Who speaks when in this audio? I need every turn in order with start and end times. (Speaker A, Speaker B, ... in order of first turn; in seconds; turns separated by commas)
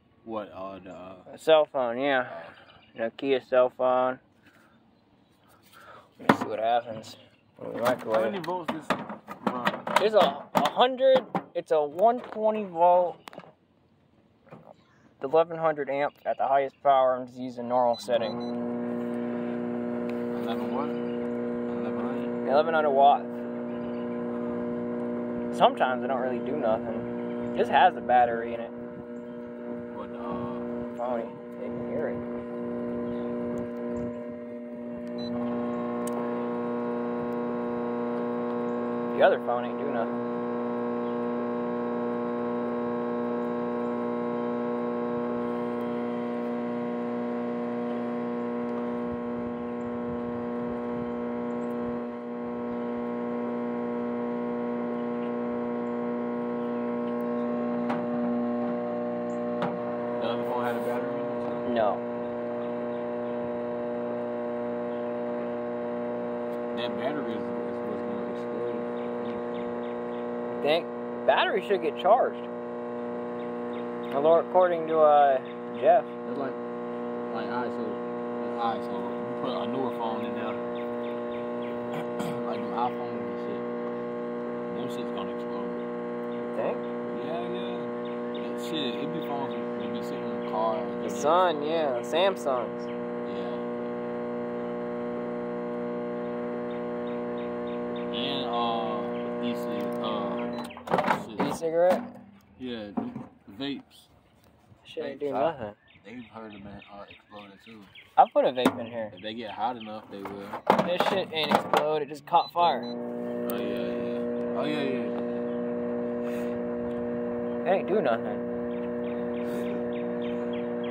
Speaker A: 0.2-1.3, Speaker B: 1.3-2.4, Speaker A: 2.3-2.5, Speaker B: 2.9-4.2, Speaker B: 6.2-8.4, Speaker A: 8.1-10.0, Speaker B: 10.0-13.2, Speaker B: 15.2-18.4, Speaker A: 20.3-21.0, Speaker A: 21.7-22.4, Speaker B: 22.4-23.3, Speaker B: 25.5-28.7, Speaker A: 29.9-30.7, Speaker B: 31.0-32.2, Speaker B: 39.1-40.2, Speaker A: 60.2-61.7, Speaker B: 61.6-62.0, Speaker A: 66.7-69.8, Speaker B: 70.5-72.5, Speaker B: 74.1-76.1, Speaker A: 76.2-76.6, Speaker A: 77.3-80.6, Speaker A: 81.9-83.7, Speaker A: 84.7-85.9, Speaker B: 86.4-86.9, Speaker A: 87.0-91.6, Speaker B: 91.0-92.9, Speaker A: 93.2-93.9, Speaker A: 98.1-101.5, Speaker B: 101.3-102.1, Speaker A: 102.6-104.1, Speaker B: 104.8-105.8, Speaker A: 105.0-107.9, Speaker B: 108.2-109.1, Speaker A: 109.1-110.6, Speaker B: 110.8-112.9, Speaker A: 113.4-115.4, Speaker B: 117.6-118.4, Speaker A: 119.5-119.8